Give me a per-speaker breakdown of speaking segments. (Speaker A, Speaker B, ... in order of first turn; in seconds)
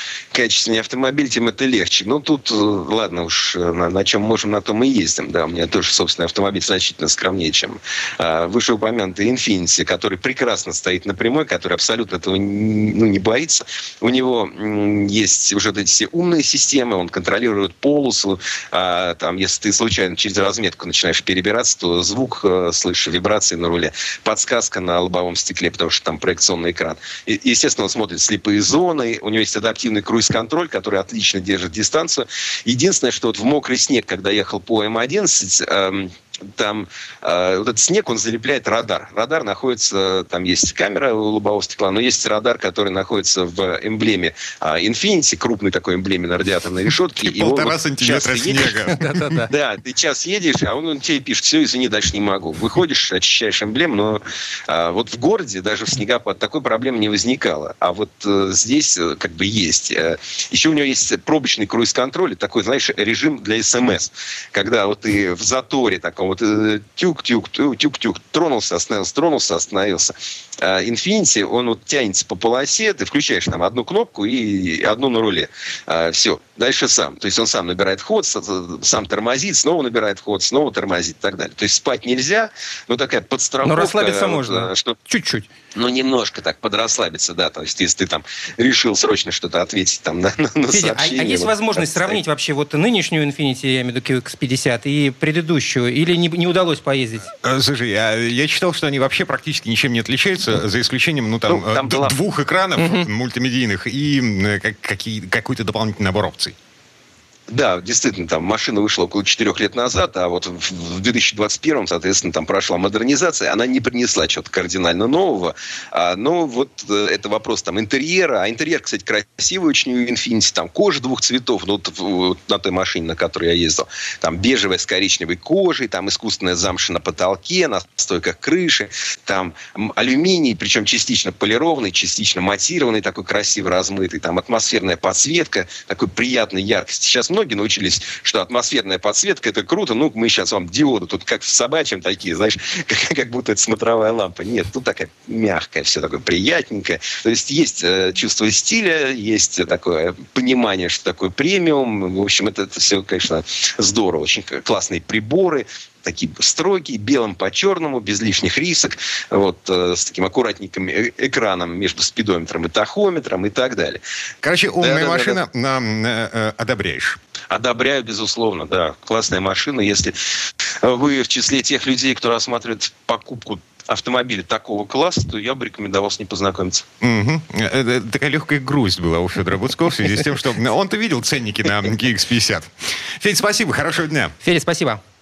Speaker A: 0.3-48.8, 49.5-85.0, 85.7-92.2, 101.5-102.2, 107.5-164.0, 164.8-165.4, 167.5-170.2, 170.8-176.8
Speaker B: 47.2-49.4, 97.4-106.5, 164.4-167.2, 177.0-184.3
Speaker C: 48.9-49.5, 83.6-85.5, 90.7-97.3, 102.8-103.1, 184.4-185.0